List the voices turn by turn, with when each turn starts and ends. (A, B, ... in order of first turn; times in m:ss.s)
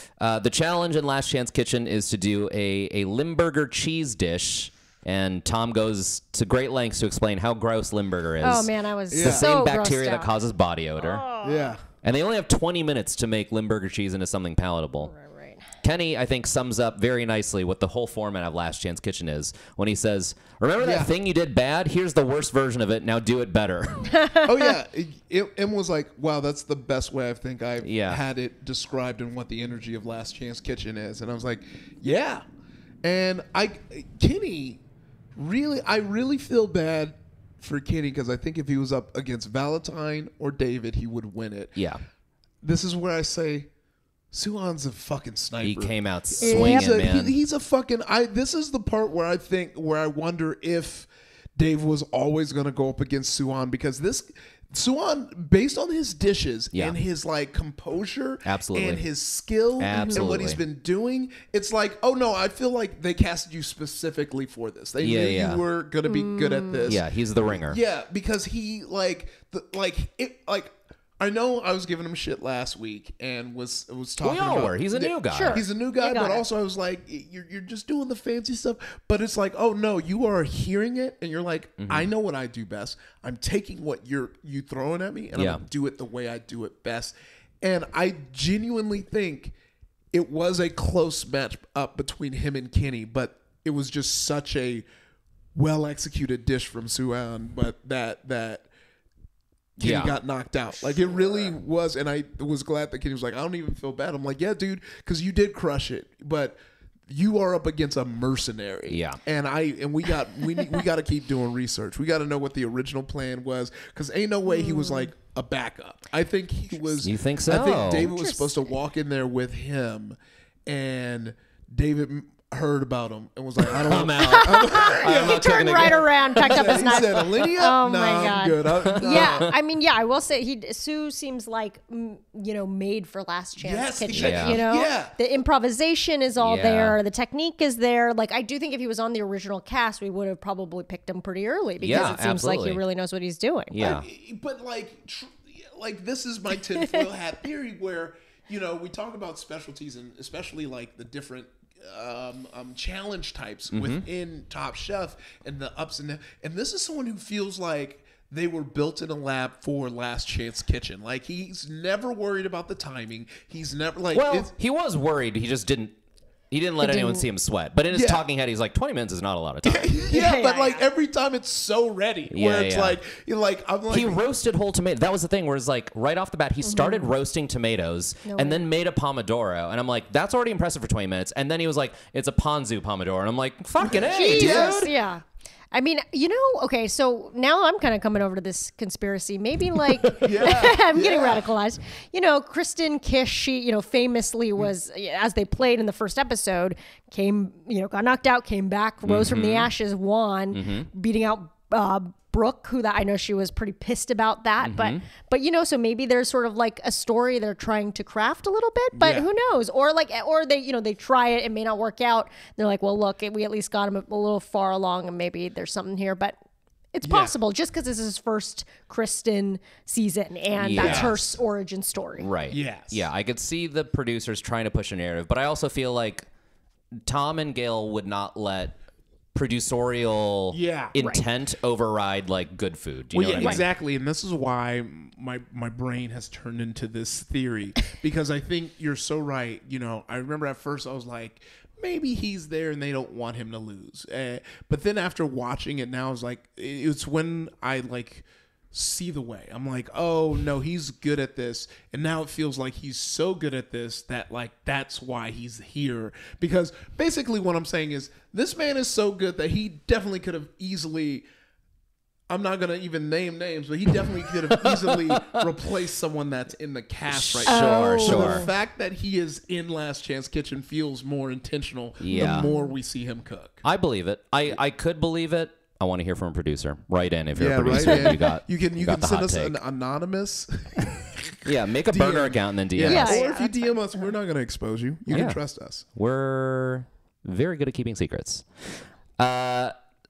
0:00.2-0:11.2 A
0:08.4-0:10.3 B
0:09.1-0:09.5 C
0:11.0-0:11.8 B
0:11.4-0:11.8 C
0:12.0-0:15.1 A
0:15.0-0:15.6 B
0:15.8-0:24.1 A
0:20.8-0:21.1 C
0:24.1-0:24.7 B
0:24.4-0:32.4 C
0:27.8-0:28.2 A
0:33.0-0:34.8 C
0:35.4-0:41.8 C
0:41.8-0:42.0 A
0:42.6-0:43.7 C
0:44.3-1:29.6 C
0:45.6-0:47.4 A
0:46.4-0:47.0 B
0:58.4-0:59.1 A
0:59.8-1:00.6 A
0:59.9-1:00.3 B
1:05.0-1:05.6 A
1:06.1-1:07.0 B
1:06.9-1:07.8 A
1:14.2-1:15.6 A
1:15.3-1:16.4 B
1:21.8-1:22.1 A
1:25.4-1:25.6 A
1:30.1-1:34.9 C
1:35.6-1:38.7 C
1:39.8-2:09.5 C
1:39.8-1:40.2 A
1:48.9-1:49.2 A
1:54.5-1:55.1 B
1:57.0-1:58.1 A
1:57.9-1:58.7 B
2:03.7-2:07.1 A
2:04.2-2:24.0 B
2:08.8-2:09.5 A
2:13.6-2:15.1 C
2:14.1-2:14.6 A
2:16.4-2:17.0 A
2:21.8-2:22.8 A
2:21.9-2:22.2 C
2:23.7-2:24.1 A
2:23.8-2:44.5 C
2:26.8-2:27.0 B
2:33.7-2:34.0 A
2:44.1-2:46.0 A
2:46.5-2:49.9 A
2:46.8-2:47.3 B
2:47.9-2:48.2 C
2:49.6-2:54.2 C
2:50.1-2:50.8 B
2:52.3-2:53.0 A
2:53.9-3:04.9 A
2:56.6-2:57.1 B
2:58.3-2:58.7 B
3:03.8-3:04.9 C
3:04.0-3:36.4 B
3:10.2-3:11.5 C
3:19.0-3:19.7 A
3:20.5-3:20.9 A
3:24.6-3:25.0 A
3:28.9-3:29.3 C
3:36.9-3:42.3 B
3:37.0-3:37.4 C
3:40.6-3:41.2 A
3:40.8-3:41.3 C
3:42.2-3:46.3 A
3:42.5-3:43.1 C
3:47.1-3:48.8 A
3:49.3-3:53.6 A
3:50.5-3:51.0 C
3:53.1-4:21.3 C
4:22.3-4:33.6 C
4:24.1-4:25.4 A
4:27.1-4:28.5 A
4:27.5-4:28.5 B
4:32.0-4:32.5 A
4:32.1-4:32.7 B
4:33.6-4:39.6 A
4:37.4-4:45.9 C
4:37.8-4:38.2 B
4:41.4-4:43.2 A
4:42.8-4:44.0 B
4:45.1-4:45.4 A
4:45.9-4:48.6 A
4:49.2-4:49.7 A